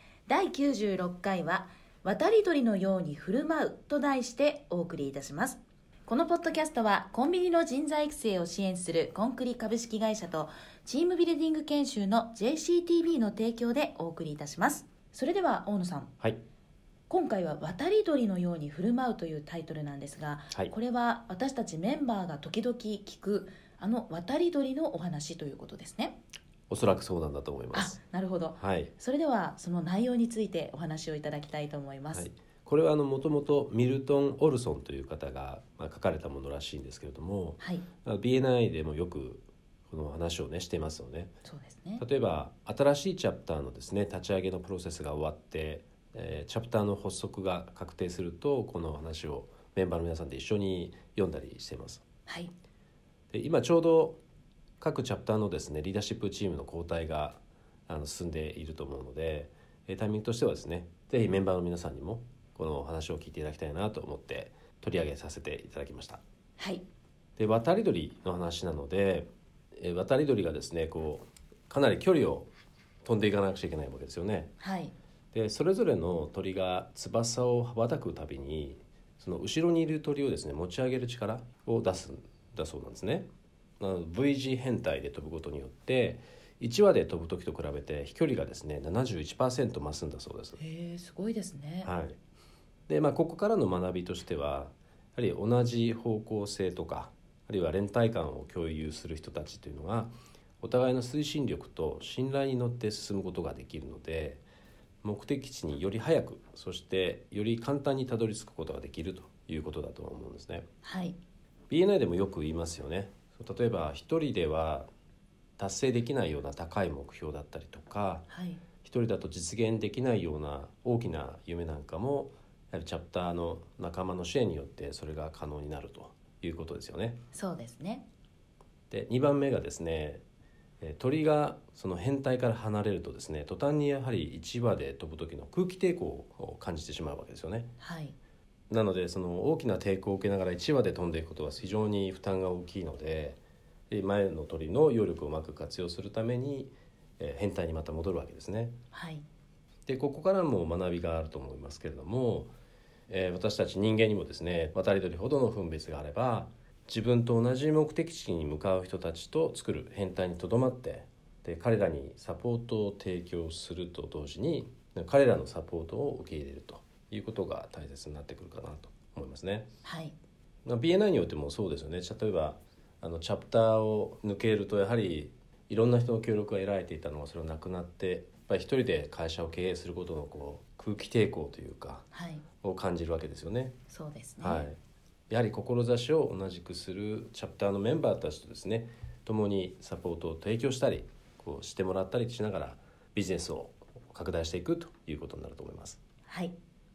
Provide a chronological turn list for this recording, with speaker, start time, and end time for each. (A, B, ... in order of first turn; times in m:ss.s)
0:00.3-0:16.1 A
0:17.1-0:26.2 A
0:26.7-0:28.0 B
0:27.7-0:32.2 A
0:28.6-0:28.9 B
0:32.1-0:41.3 B
0:37.6-0:37.8 A
0:41.4-0:42.0 A
0:42.0-0:52.0 B
0:52.2-0:52.5 A
0:53.3-0:54.2 B
0:54.8-1:06.2 B
1:06.6-1:06.8 A
1:07.4-1:12.5 B
1:13.0-1:14.6 B
1:14.6-1:14.9 A
1:15.3-1:23.3 B
1:23.8-1:30.6 B
1:30.6-1:31.9 A
1:31.8-1:32.2 B
1:32.9-1:44.4 B
1:45.0-1:50.6 B
1:50.8-1:51.2 A
1:51.7-1:54.9 B
1:55.6-1:58.3 B
1:58.3-1:58.6 A
1:58.8-2:07.2 B
2:07.3-2:08.0 A
2:08.9-2:10.2 B
2:10.8-2:17.7 B
2:17.8-2:18.2 A
2:18.7-2:28.8 B
2:28.9-2:29.2 A
2:29.9-2:32.5 B
2:33.1-2:49.7 B
2:49.8-2:50.1 A
2:50.6-3:02.1 B
3:02.1-3:02.4 A
3:02.6-3:03.8 B
3:03.9-3:04.6 A
3:04.4-3:04.8 B
3:05.3-3:16.0 B
3:16.3-3:16.5 A